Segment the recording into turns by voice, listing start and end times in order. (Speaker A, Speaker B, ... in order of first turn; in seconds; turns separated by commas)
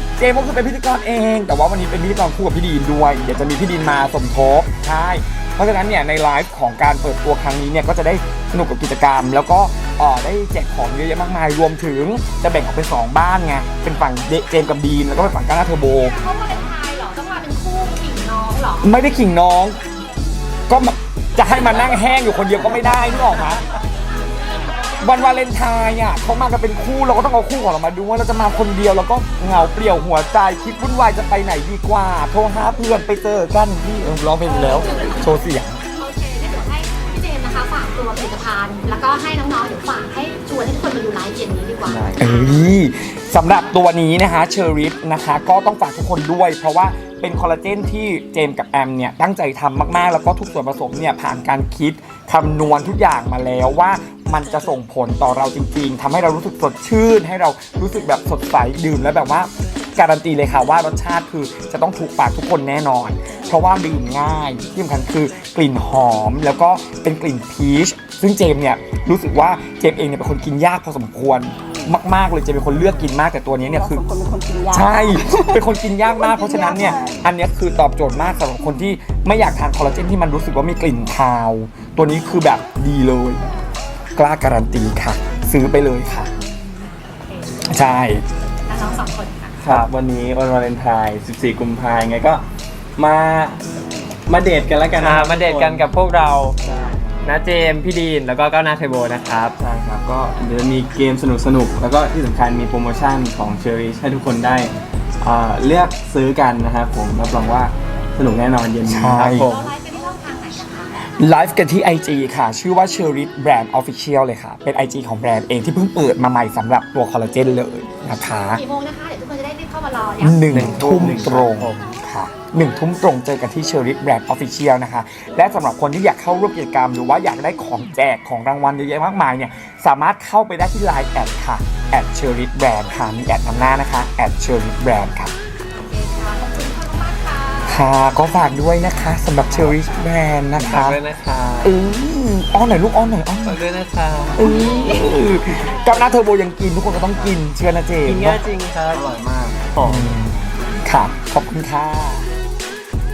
Speaker A: 0.2-16.2, Speaker B: 15.8-19.0, Speaker A: 18.8-19.8, Speaker A: 20.7-23.6, Speaker B: 23.0-25.4, Speaker A: 25.0-35.8, Speaker B: 34.4-42.7, Speaker C: 41.8-42.2, Speaker A: 42.2-74.0, Speaker D: 73.6-77.2, Speaker A: 74.7-83.5, Speaker A: 84.2-86.3, Speaker B: 85.3-85.7, Speaker B: 86.4-87.9, Speaker A: 87.7-88.3, Speaker B: 88.7-89.5, Speaker C: 89.6-92.4, Speaker E: 89.7-89.9, Speaker C: 93.0-93.6, Speaker C: 94.3-95.9, Speaker E: 95.0-96.6, Speaker C: 96.6-97.3, Speaker E: 97.2-99.6, Speaker C: 99.6-109.7, Speaker A: 108.9-109.5, Speaker B: 109.4-110.9, Speaker A: 111.0-118.6, Speaker B: 118.5-120.5, Speaker A: 120.2-135.3, Speaker C: 120.5-121.7, Speaker E: 120.5-122.0, Speaker B: 135.7-137.9, Speaker A: 137.7-141.0, Speaker C: 139.5-139.8, Speaker E: 140.6-141.8, Speaker A: 141.6-143.6, Speaker E: 143.5-144.5, Speaker A: 144.4-148.4, Speaker B: 144.4-145.2, Speaker C: 147.1-147.4, Speaker E: 148.0-149.1, Speaker C: 148.9-149.8, Speaker E: 149.7-150.2, Speaker A: 149.8-152.3, Speaker C: 150.4-150.8